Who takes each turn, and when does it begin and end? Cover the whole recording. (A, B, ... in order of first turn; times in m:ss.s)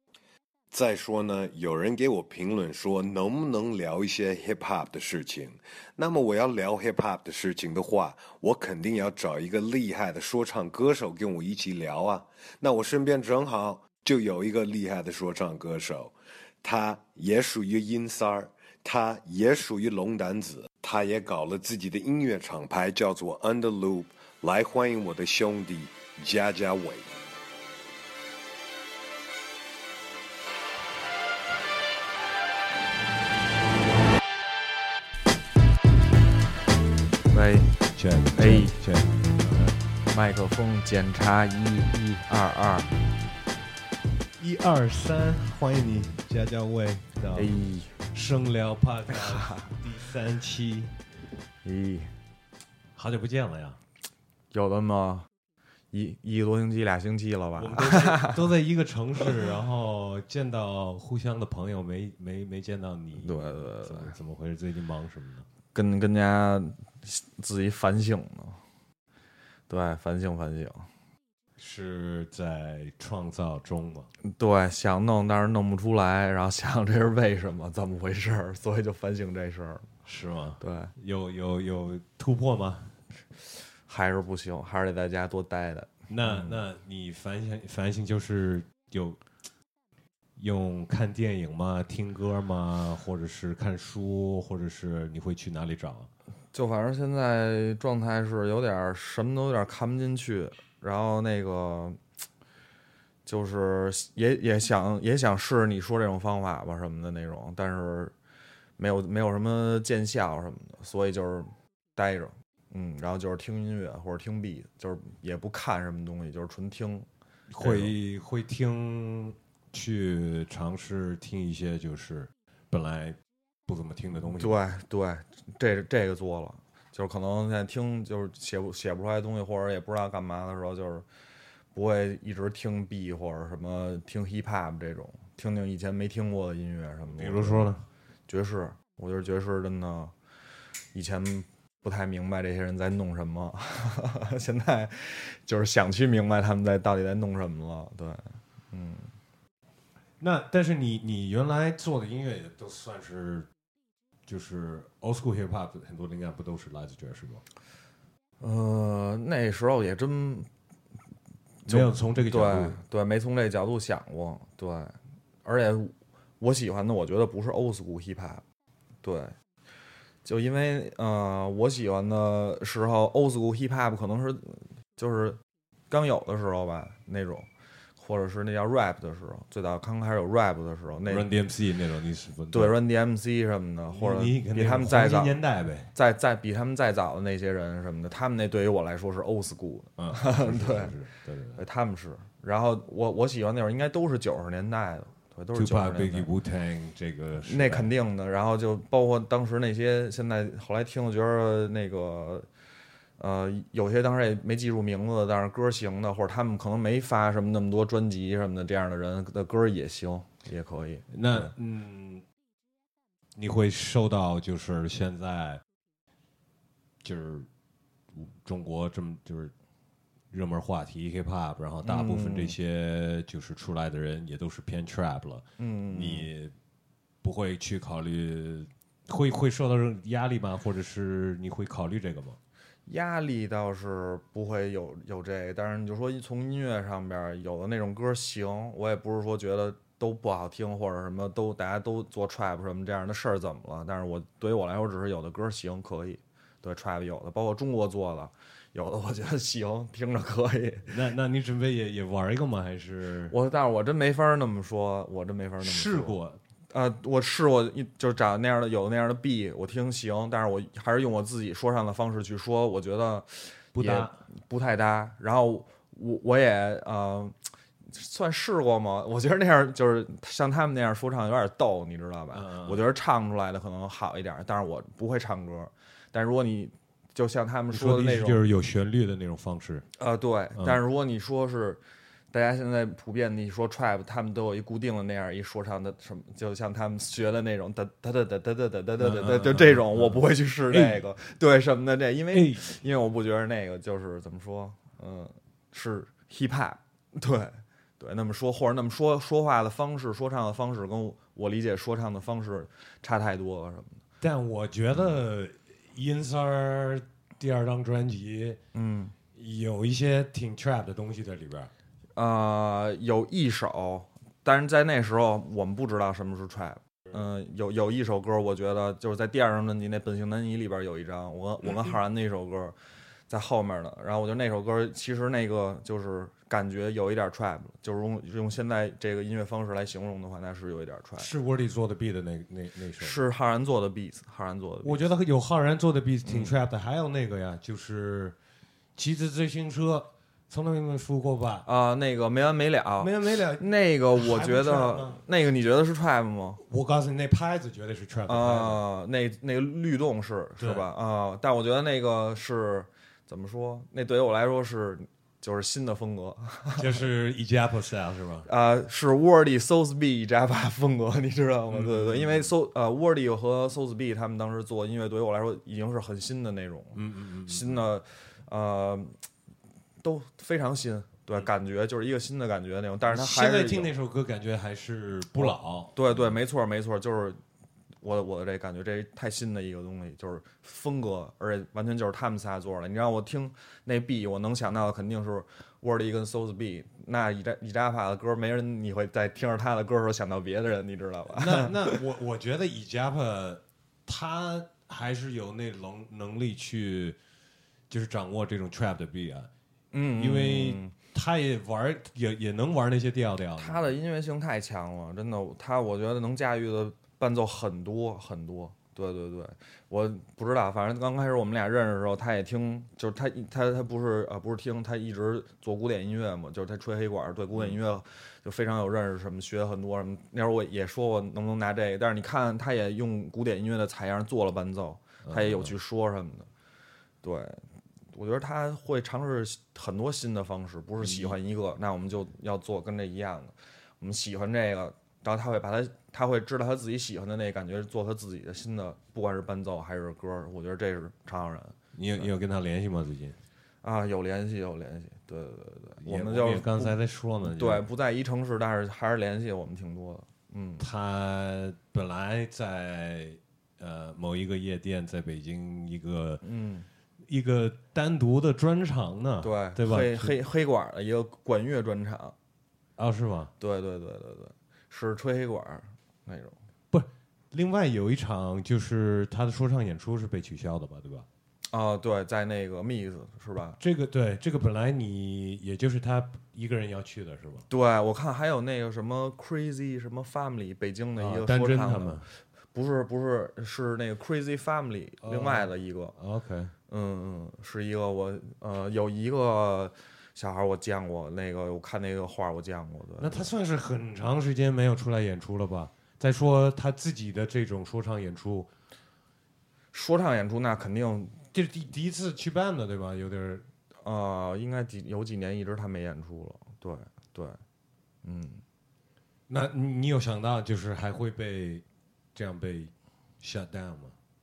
0:00.7-0:16.1 A
0:03.4-0:05.3 B
0:06.2-0:07.2 B
0:08.7-0:10.2 B
0:11.5-0:12.2 B
0:13.6-0:14.0 B
0:16.6-0:27.0 A
0:26.3-0:26.9 B
0:37.3-0:38.8 C
0:37.9-0:39.8 B
0:40.1-0:42.9 C
0:44.4-0:47.5 B
0:47.3-0:48.0 C
0:48.1-0:51.0 B
0:49.1-0:49.7 C
0:51.6-0:52.1 C
0:53.0-0:53.8 B
0:54.5-0:55.3 C
0:55.9-0:58.4 C
0:57.6-1:05.5 B
1:03.2-1:04.1 C
1:05.7-1:08.6 C
1:09.7-1:10.9 C
1:11.6-1:14.1 B
1:14.2-1:19.9 C
1:20.0-1:22.9 B
1:20.6-1:20.9 C
1:23.9-1:26.6 C
1:26.1-1:29.2 B
1:30.4-1:36.1 B
1:36.5-1:42.0 C
1:43.2-1:48.1 C
1:48.8-1:57.1 C
1:57.5-2:04.6 B
1:57.6-1:57.9 C
2:04.4-2:11.0 C
2:11.7-2:17.7 C
2:17.2-2:17.8 B
2:18.3-2:20.1 C
2:20.9-2:29.1 C
2:30.2-2:33.5 B
2:34.3-2:37.4 B
2:38.4-2:40.5 C
2:41.6-2:48.4 C
2:41.7-2:42.8 B
2:49.0-2:49.3 C
2:50.2-2:55.4 C
2:55.9-2:57.5 C
2:58.0-3:01.3 C
3:01.1-3:02.7 B
3:02.5-3:05.4 C
3:03.9-3:05.9 B
3:05.9-3:11.0 C
3:10.0-3:11.6 B
3:11.6-3:16.3 C
3:15.5-3:17.9 B
3:17.4-3:22.5 C
3:23.2-3:31.5 C
3:31.1-3:32.2 B
3:33.4-3:35.6 B
3:37.0-3:37.5 B
3:38.1-3:39.5 B
3:40.3-3:46.5 B
3:41.8-3:42.5 C
3:45.6-3:46.3 C
3:47.2-3:52.4 B
3:52.9-4:10.9 C
4:10.9-4:13.3 B
4:13.3-4:16.2 C
4:15.6-4:16.4 B
4:16.7-4:38.4 C
4:23.7-4:24.2 B
4:32.3-4:32.8 B
4:37.7-4:39.8 B
4:40.0-4:41.8 C
4:42.3-5:04.0 C
4:49.0-4:50.2 B
4:50.7-4:51.0 B
4:52.3-4:52.8 B
5:04.2-5:08.6 B
5:04.9-5:05.2 C
5:08.7-5:09.1 C
5:09.3-5:11.7 B
5:12.2-5:22.8 C
5:23.3-5:31.3 C
5:31.2-5:33.2 B
5:33.0-5:35.0 C
5:34.8-5:38.4 B
5:36.2-5:36.5 C
5:39.0-5:41.7 B
5:41.6-5:46.6 C
5:43.0-5:45.2 B
5:46.7-5:48.8 B
5:48.3-5:57.0 C
5:50.6-5:50.8 B
5:56.8-5:58.5 B
5:58.4-6:09.1 C
6:01.7-6:02.5 B
6:06.9-6:07.8 B
6:10.0-6:13.9 C
6:13.1-6:16.3 B
6:15.4-6:17.4 C
6:18.0-6:32.0 C
6:31.3-6:37.2 B
6:37.9-6:39.5 B
6:39.9-6:40.9 C
6:40.2-6:43.9 B
6:43.6-7:06.5 C
7:05.2-7:05.7 B
7:07.2-7:21.8 C
7:11.0-7:11.3 B
7:21.9-7:23.4 B
7:23.8-7:26.9 C
7:26.0-7:27.8 B
7:27.5-7:30.8 C
7:30.8-7:36.4 B
7:36.4-7:36.9 C
7:37.3-7:40.4 B
7:39.4-7:42.3 C
7:43.0-7:43.5 B
7:43.6-7:46.6 C
7:46.9-7:51.2 B
7:51.7-7:53.8 C
7:53.8-7:57.6 B
7:57.7-8:06.1 C
8:01.2-8:02.2 B
8:05.2-8:06.7 B
8:06.9-8:13.5 C
8:13.2-8:18.7 B
8:19.9-8:21.4 C
8:21.5-8:23.6 B
8:24.0-8:27.6 C
8:28.2-8:28.6 C
8:29.5-8:31.8 B
8:32.3-8:34.2 B